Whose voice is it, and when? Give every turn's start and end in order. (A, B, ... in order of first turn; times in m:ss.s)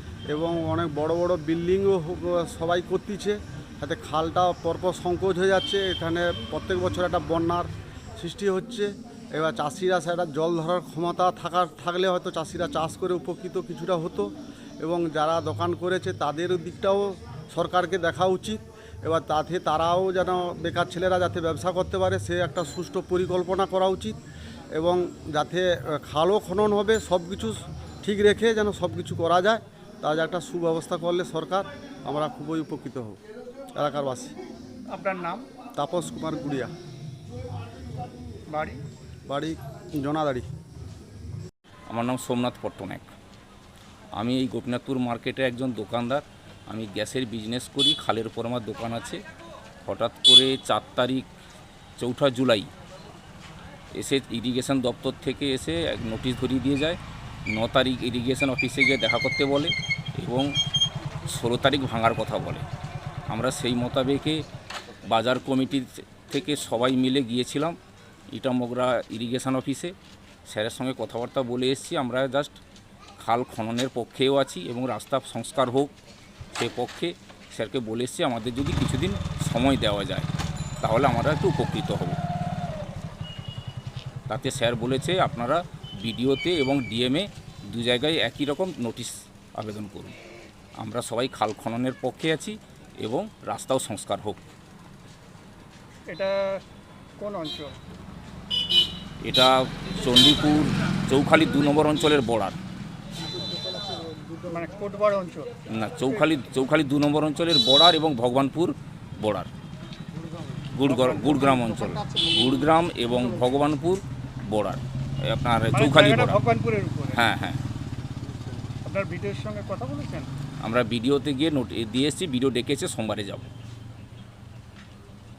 0:00.3-0:14.3 A
0:14.8-0:24.2 A
0:24.7-0:33.2 A
0:33.8-0:34.3 A
0:34.9-0:35.4 B
0:35.8-0:36.7 A
0:38.5-0:38.8 B
0:39.3-0:40.5 A
0:41.9-0:43.1 C
0:44.2-0:49.2 C
0:49.8-0:51.3 C
0:52.0-0:52.7 C
0:54.0-0:57.0 C
0:57.5-1:00.5 C
1:01.3-1:02.6 C
1:03.3-1:04.4 C
1:05.1-1:07.8 C
1:08.3-1:09.9 C
1:10.5-1:12.6 C
1:13.2-1:15.9 C
1:16.5-1:20.3 C
1:20.8-1:22.2 C
1:24.3-1:30.2 C
1:30.8-1:34.5 C
1:36.1-1:36.6 B
1:37.2-1:37.8 B
1:39.2-1:42.6 C
1:44.4-1:45.5 B
1:45.7-1:49.5 C
1:50.7-1:56.4 C
1:50.8-1:51.4 B
1:55.7-1:57.2 B
1:57.2-1:57.6 C
1:58.8-2:00.3 B
2:00.6-2:03.5 C